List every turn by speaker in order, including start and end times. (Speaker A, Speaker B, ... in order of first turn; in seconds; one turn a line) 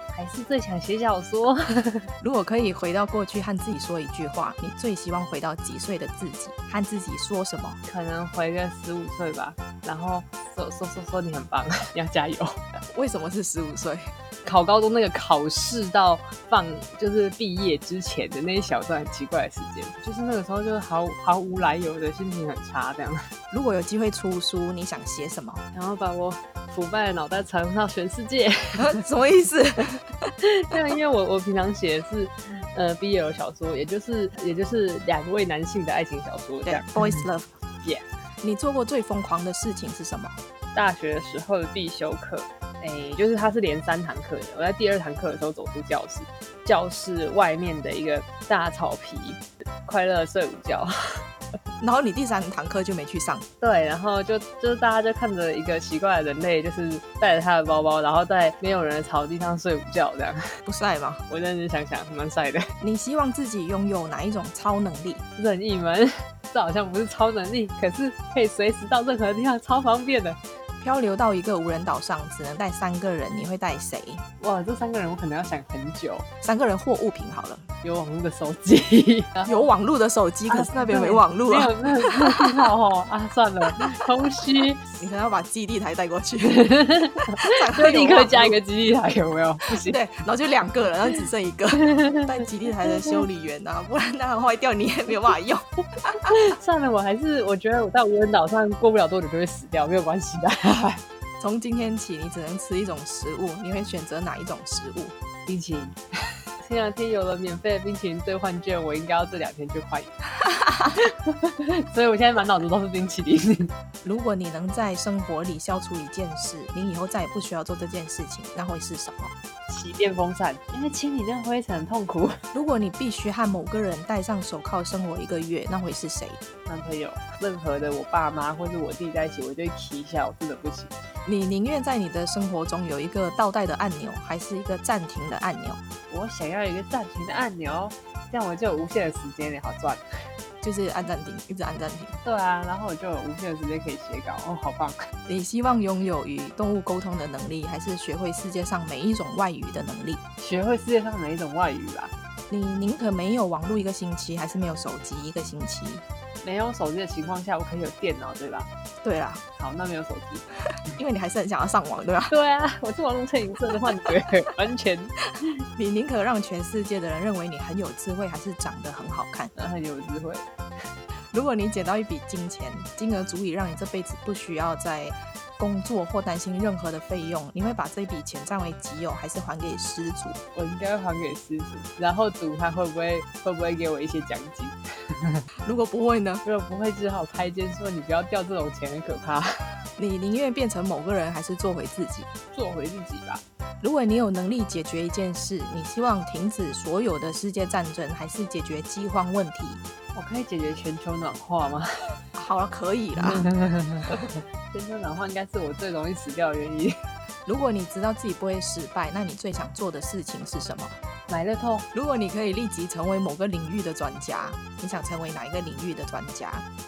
Speaker A: 0.1-2.1
Speaker B: 2.2-7.8
Speaker A: 7.9-12.6
Speaker B: 12.9-14.1
Speaker A: 14.4-23.2
Speaker B: 23.5-25.6
Speaker A: 25.7-29.0
Speaker B: 28.8-30.3
Speaker A: 30.4-37.2
Speaker B: 36.7-37.5
Speaker B: 38.4-40.4
Speaker A: 40.7-50.9
Speaker B: 51.8-53.5
Speaker A: 53.6-60.4
Speaker B: 60.7-61.2
Speaker A: 61.3-62.6
Speaker B: 62.8-65.2
Speaker A: 65.4-70.4
Speaker B: 70.8-74.2
Speaker A: 74.4-76.3
Speaker B: 76.4-77.7
Speaker A: 77.8-79.7
Speaker B: 79.5-82.7
Speaker A: 80.5-84.8
Speaker B: 85.0-86.6
Speaker A: 86.4-90.0
Speaker B: 87.4-88.6
Speaker B: 89.9-96.3
Speaker A: 91.8-92.2
Speaker A: 96.3-101.0
Speaker B: 101.4-105.2
Speaker A: 105.5-106.0
Speaker A: 106.6-110.2
Speaker A: 111.0-113.7
Speaker B: 114.0-119.3
Speaker A: 119.7-122.3
Speaker B: 122.5-126.4
Speaker A: 126.7-131.0
Speaker B: 131.3-135.8
Speaker A: 136.1-140.0
Speaker B: 140.6-142.2
Speaker A: 142.2-145.0
Speaker B: 145.3-150.2
Speaker A: 150.4-152.1
Speaker B: 152.5-156.0
Speaker A: 156.4-158.7
Speaker B: 159.0-159.4
Speaker A: 159.6-160.4
Speaker B: 161.0-162.3
Speaker A: 162.3-165.2
Speaker B: 165.8-169.5
Speaker A: 169.6-170.5
Speaker B: 171.3-180.4
Speaker A: 180.6-185.4
Speaker B: 185.7-186.4
Speaker A: 186.4-189.5
Speaker B: 190.0-192.3
Speaker A: 192.5-193.4
Speaker B: 193.8-199.8
Speaker A: 200.1-202.2
Speaker B: 202.3-203.5
Speaker A: 203.2-207.0
Speaker B: 207.5-211.0
Speaker A: 211.3-211.9
Speaker B: 211.9-216.7